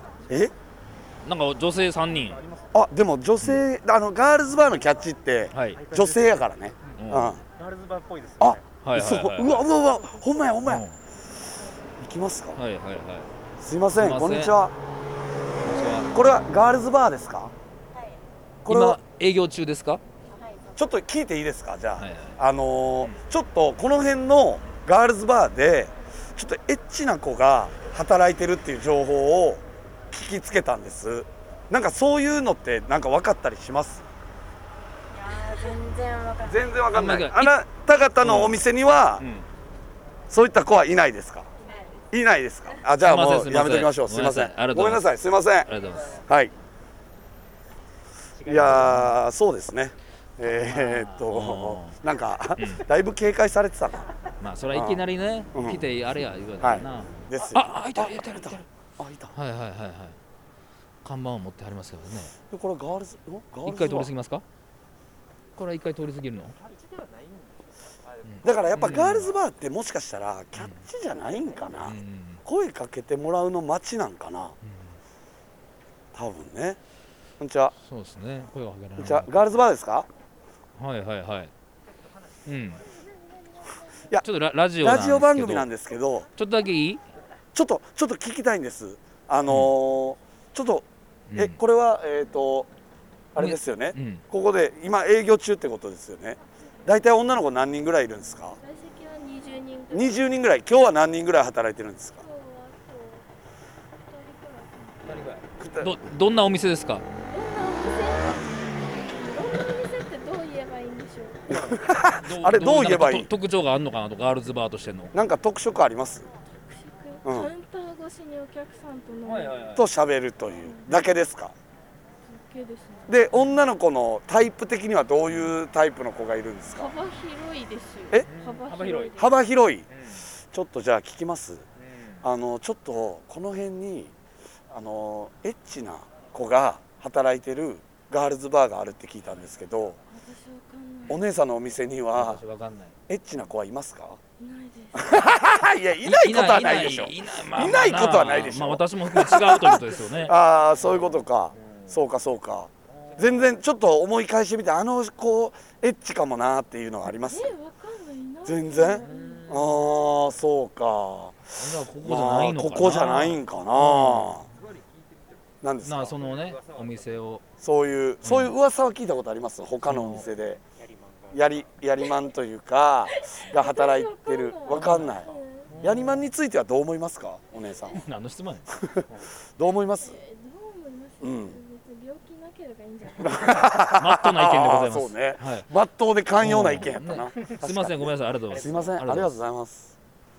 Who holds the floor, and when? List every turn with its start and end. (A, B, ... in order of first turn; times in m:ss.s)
0:00.3-0:00.5 A
0:01.2-0:02.4 B
0:02.3-0:02.7 C
0:02.7-0:07.4 A
0:05.5-0:05.8 B
0:05.7-0:06.3 C
0:07.0-0:07.4 B
0:07.5-0:08.6 C
0:08.4-0:10.8 A
0:08.8-0:09.6 B
0:10.6-0:10.9 B
0:12.0-0:12.6 A
0:12.6-0:13.3 B
0:13.6-0:14.7 A
0:13.9-0:14.5 B
0:15.6-0:16.1 B
0:16.1-0:17.5 A
0:18.6-0:19.0 A
0:18.7-0:20.0 B
0:20.7-0:34.0 A
0:22.0-0:22.4 B
0:35.3-0:36.4 D
0:36.4-0:39.2 A
0:36.9-0:37.6 B
0:38.2-0:38.6 B
0:39.2-0:39.4 B
0:40.3-0:41.5 A
0:42.1-0:45.7 A
0:43.0-0:45.1 B
0:45.6-0:46.2 B
0:46.2-0:46.5 A
0:48.4-0:48.9 C
0:48.4-0:54.1 A
0:50.4-0:52.0 B
0:52.6-0:52.8 B
0:54.4-0:58.6 B
0:54.7-0:55.0 A
0:55.5-0:55.8 A
0:56.6-0:59.3 A
0:59.3-1:00.2 B
1:01.0-1:02.3 B
1:02.5-1:04.1 A
1:03.6-1:04.4 B
1:05.6-1:06.6 B
1:08.2-1:09.3 B
1:08.4-1:14.5 A
1:10.6-1:10.8 B
1:11.8-1:12.4 B
1:16.1-1:16.8 A
1:17.4-1:17.7 A
1:17.8-1:19.5 B
1:19.0-1:20.1 A
1:20.8-1:21.5 B
1:22.4-1:22.8 B
1:24.2-1:25.7 B
1:24.8-1:26.2 A
1:26.4-1:27.0 B
1:27.5-1:32.7 A
1:29.5-1:29.7 B
1:31.3-1:31.6 B
1:33.3-1:38.6 A
1:33.4-1:34.2 B
1:38.6-1:40.3 D
1:39.9-1:42.2 A
1:42.2-1:43.2 D
1:44.0-1:45.3 D
1:45.1-1:47.0 B
1:45.6-1:45.9 A
1:47.3-1:51.8 D
1:51.5-1:53.3 A
1:52.2-1:55.1 B
1:55.1-1:56.3 A
1:56.6-1:59.7 D
1:57.2-1:57.5 A
1:59.2-1:59.8 B
1:59.7-2:01.5 A
2:00.6-2:01.0 D
2:02.2-2:03.4 D
2:03.1-2:06.9 A
2:06.8-2:09.4 D
2:08.4-2:09.1 B
2:09.2-2:09.8 A
2:10.5-2:11.6 A
2:12.2-2:14.1 A
2:14.7-2:20.0 A
2:20.1-2:21.2 D
2:21.1-2:22.4 A
2:22.1-2:22.9 B
2:23.1-2:24.2 A
2:24.4-2:25.5 D
2:25.0-2:37.5 A
2:26.0-2:30.3 B
2:37.2-2:39.3 D
2:38.4-2:44.5 A
2:41.6-2:44.4 B
2:45.6-2:46.2 A
2:45.8-2:47.4 B
2:47.6-2:50.6 A
2:48.2-2:48.5 B
2:49.9-2:50.2 B
2:51.3-2:58.0 A
2:53.2-2:55.7 D
2:58.0-2:58.6 B
2:58.7-2:59.0 A
2:59.6-3:00.2 A
3:00.0-3:03.7 D
3:01.2-3:01.6 A
3:03.2-3:09.9 A
3:03.9-3:05.7 B
3:06.4-3:09.3 B